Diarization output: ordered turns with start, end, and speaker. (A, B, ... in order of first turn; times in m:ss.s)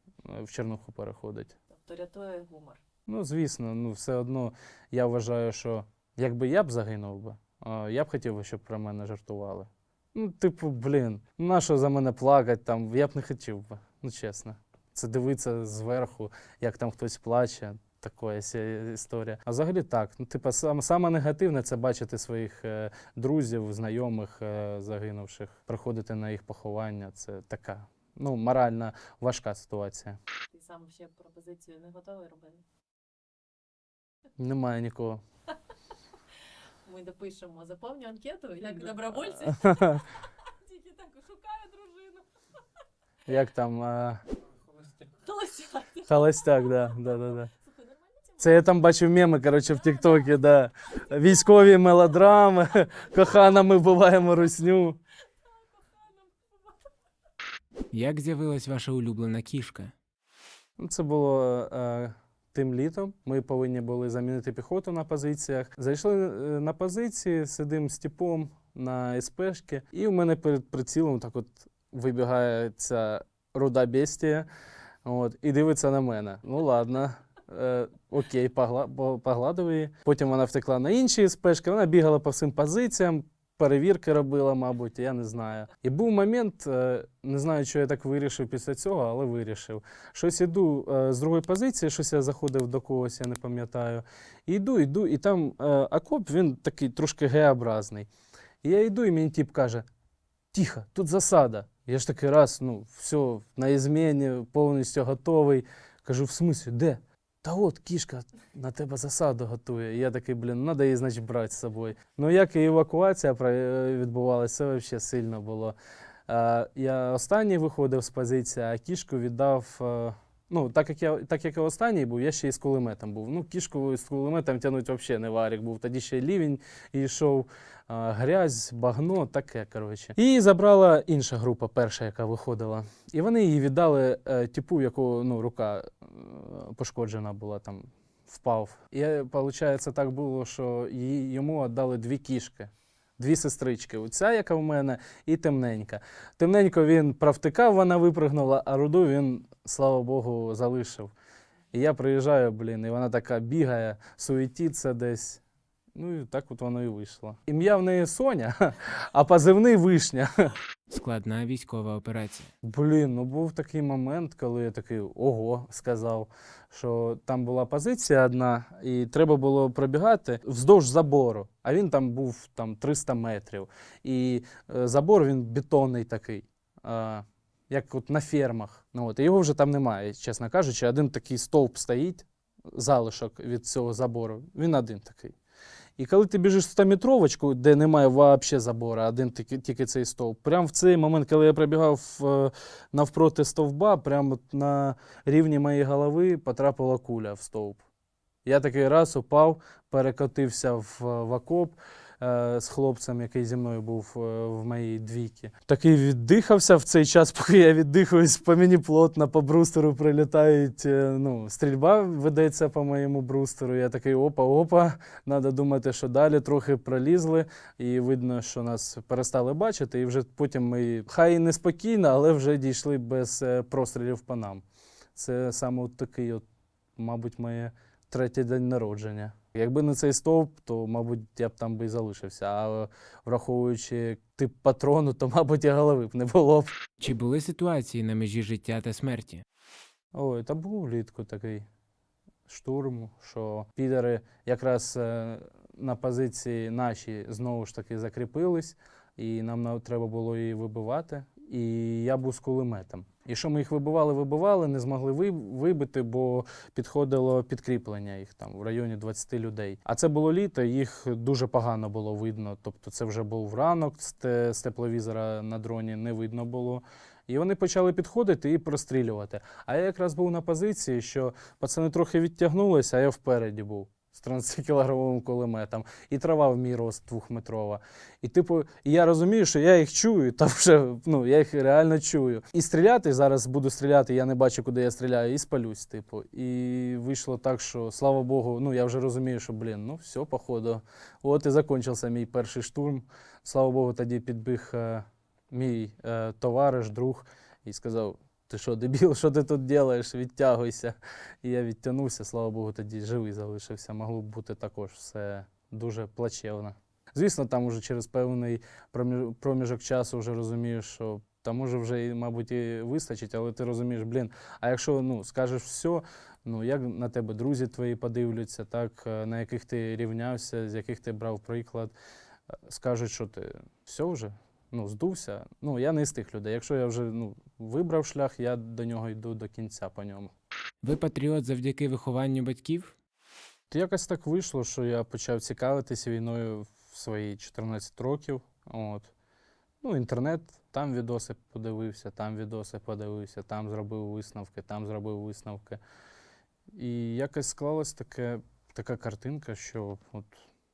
0:00.2-0:01.6 A
0:01.7-0:02.8 B
0:03.1-0:30.2 A
0:30.5-0:32.6 B
0:34.4-0:35.2 A
0:36.8-0:42.3 B
0:39.6-0:40.0 A
0:43.3-0:44.2 A
0:44.8-0:48.7 B
0:46.1-0:47.5 A
0:48.4-0:55.0 A
0:55.5-0:56.9 B
0:57.9-0:59.9 C
1:00.8-1:14.5 A
1:15.0-1:38.1 A
1:38.6-1:39.8 A
1:40.5-1:55.8 A
1:56.3-2:31.1 A
2:31.7-2:35.4 A
2:36.0-2:40.5 A
2:40.9-2:42.5 C
2:42.6-3:05.4 A
3:06.0-3:17.8 A
3:18.4-3:44.6 A
3:45.2-3:46.4 A
3:47.0-3:56.8 A
3:57.0-3:59.4 C
4:00.1-4:01.6 A
4:02.5-5:22.0 A
5:22.7-5:30.3 A
5:30.8-5:33.0 C
5:33.7-5:39.1 A
5:39.8-5:45.8 A
5:46.7-5:50.4 A